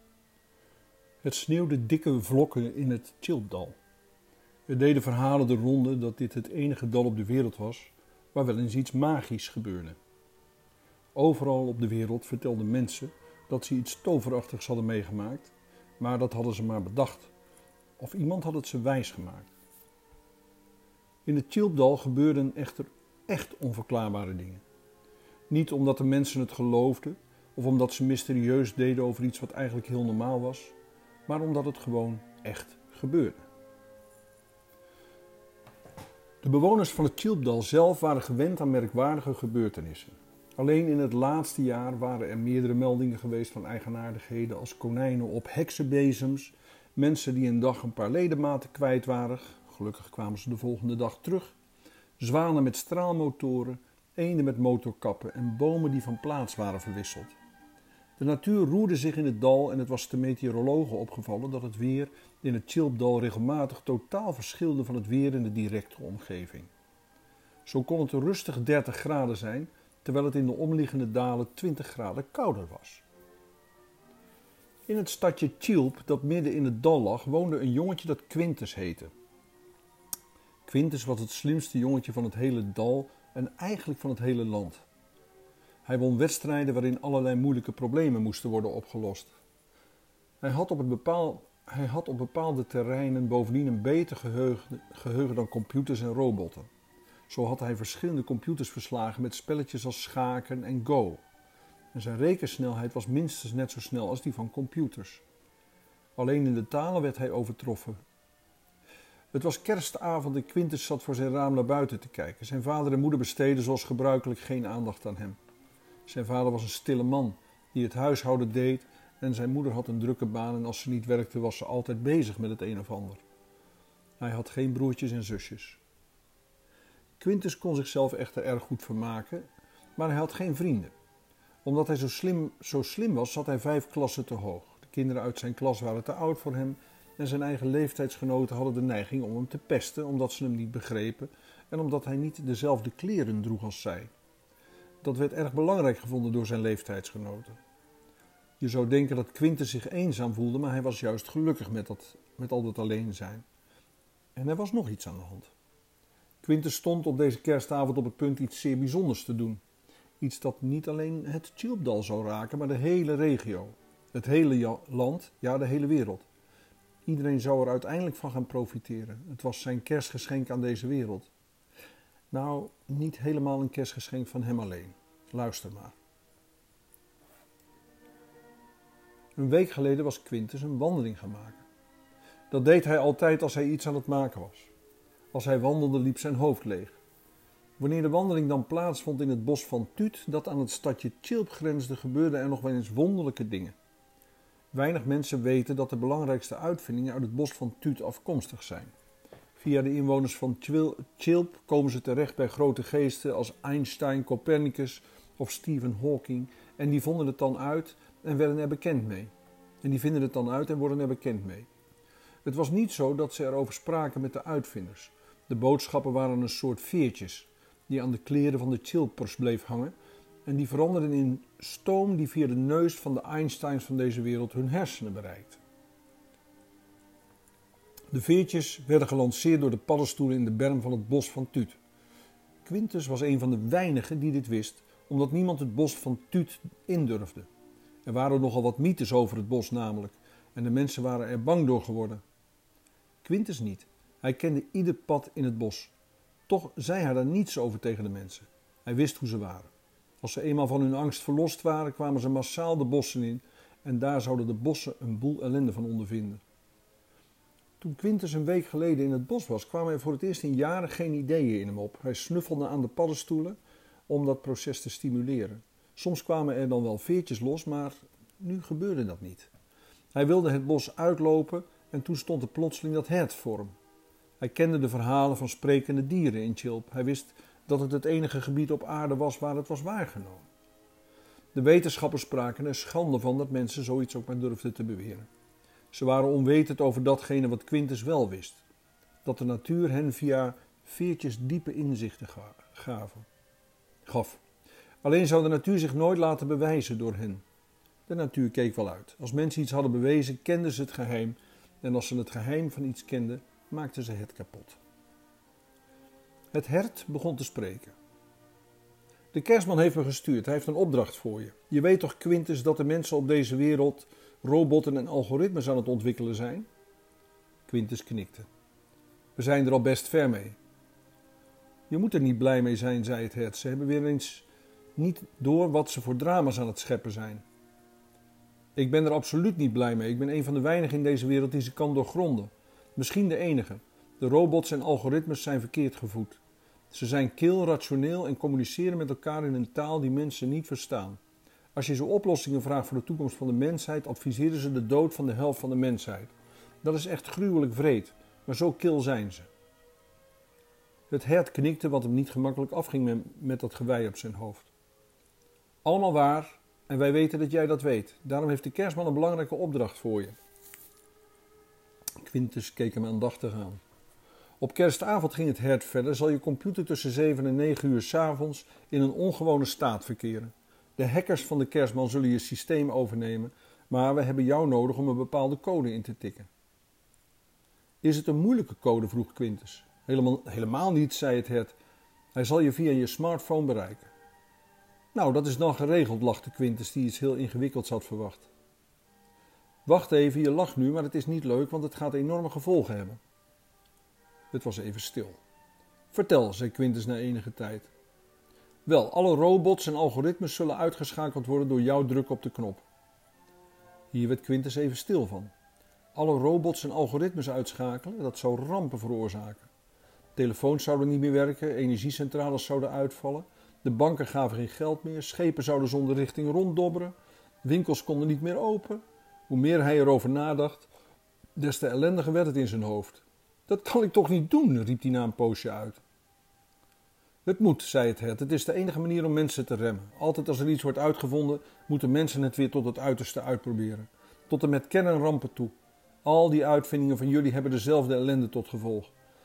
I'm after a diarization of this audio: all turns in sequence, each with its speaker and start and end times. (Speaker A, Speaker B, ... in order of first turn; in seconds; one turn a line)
Speaker A: 1.2-3.8
Speaker A: 4.7-10.0
Speaker A: 11.2-17.3
Speaker A: 18.0-19.5
Speaker A: 21.3-24.6
Speaker A: 25.5-30.8
Speaker A: 31.3-33.4
Speaker A: 36.4-51.5
Speaker A: 52.2-57.4
Speaker A: 58.2-66.7
Speaker A: 67.7-73.0
Speaker A: 74.9-79.1
Speaker A: 80.7-84.8
Speaker A: 85.8-89.3
Speaker A: 90.4-96.7
Speaker A: 97.3-101.2
Speaker A: 101.9-105.2
Speaker A: 106.2-108.0
Speaker A: 109.3-115.4
Speaker A: 116.1-123.2
Speaker A: 124.2-125.8
Speaker A: 127.2-130.9
Speaker A: 131.6-144.1
Speaker A: 145.0-147.6
Speaker A: 148.6-153.4
Speaker A: 154.4-155.5
Speaker A: 156.4-159.6
Speaker A: 160.2-166.3
Speaker A: 167.1-171.3
Speaker A: 172.3-176.0
Speaker A: 179.3-181.7
Speaker A: 182.5-184.7
Speaker A: 185.3-187.0
Speaker A: 187.8-193.8
Speaker A: 194.7-198.9
Speaker A: 199.6-209.3
Speaker A: 209.8-211.7
Speaker A: 212.4-219.9
Speaker A: 220.4-225.6
Speaker A: 228.1-231.8
Speaker A: 232.6-237.5
Speaker A: 238.1-242.2
Speaker A: 243.2-245.9
Speaker A: 246.5-249.7
Speaker A: 250.2-256.4
Speaker A: 257.8-263.6
Speaker A: 264.1-269.5
Speaker A: 270.1-273.8
Speaker A: 274.4-280.5
Speaker A: 281.5-285.3
Speaker A: 285.9-288.6
Speaker A: 289.2-293.3
Speaker A: 294.1-294.4
Speaker A: 295.0-297.4
Speaker A: 298.1-304.8
Speaker A: 306.5-308.0
Speaker A: 309.3-316.7
Speaker A: 317.7-318.5
Speaker A: 319.4-320.6
Speaker A: 321.9-327.4
Speaker A: 328.8-341.2
Speaker A: 341.7-349.5
Speaker A: 351.1-354.7
Speaker A: 355.8-360.4
Speaker A: 362.2-363.8
Speaker A: 364.6-376.5
Speaker A: 378.0-381.8
Speaker A: 382.4-384.1
Speaker A: 385.1-388.5
Speaker A: 389.9-393.2
Speaker A: 394.5-395.4
Speaker A: 396.1-397.9
Speaker A: 398.9-402.9
Speaker A: 404.1-405.5
Speaker A: 406.1-409.7
Speaker A: 410.4-420.9
Speaker A: 421.6-426.0
Speaker A: 427.4-439.1